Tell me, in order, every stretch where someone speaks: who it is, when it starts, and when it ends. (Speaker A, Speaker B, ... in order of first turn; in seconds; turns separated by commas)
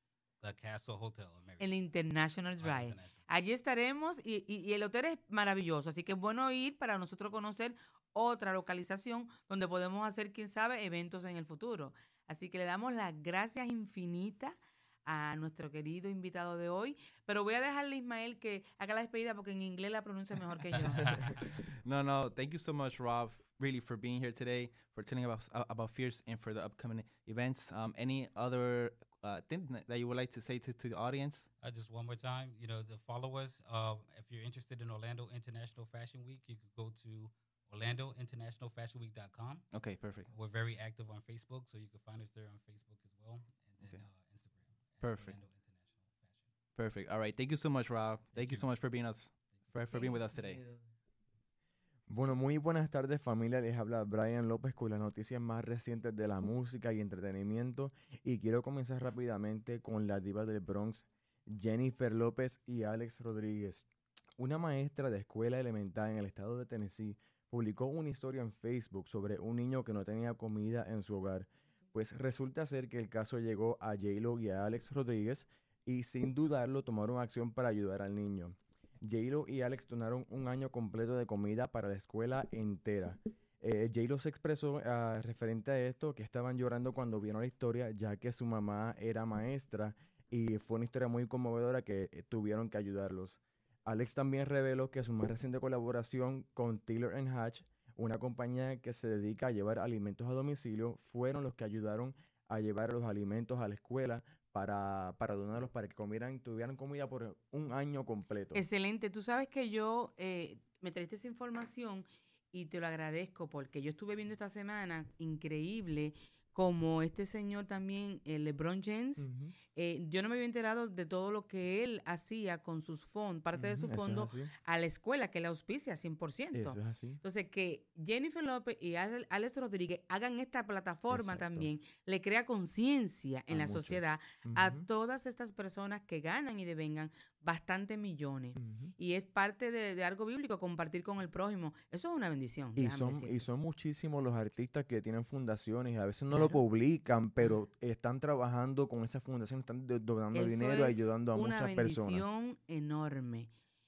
Speaker A: 0.4-1.7, Speaker B: 1.6-21.4, Speaker A: 2.6-3.2, Speaker C: 21.1-31.5, Speaker A: 31.6-39.7, Speaker C: 39.7-40.3, Speaker A: 40.3-46.4, Speaker C: 45.0-45.4, Speaker C: 46.8-50.6, Speaker A: 48.3-48.7, Speaker B: 49.9-50.9, Speaker D: 52.1-108.6, Speaker B: 108.5-143.4, Speaker D: 119.2-119.5, Speaker D: 123.5-124.5, Speaker D: 126.5-127.2, Speaker D: 131.1-131.7, Speaker D: 133.5-134.9, Speaker D: 138.6-138.9, Speaker D: 142.8-152.2, Speaker B: 146.3-146.6, Speaker B: 150.3-153.5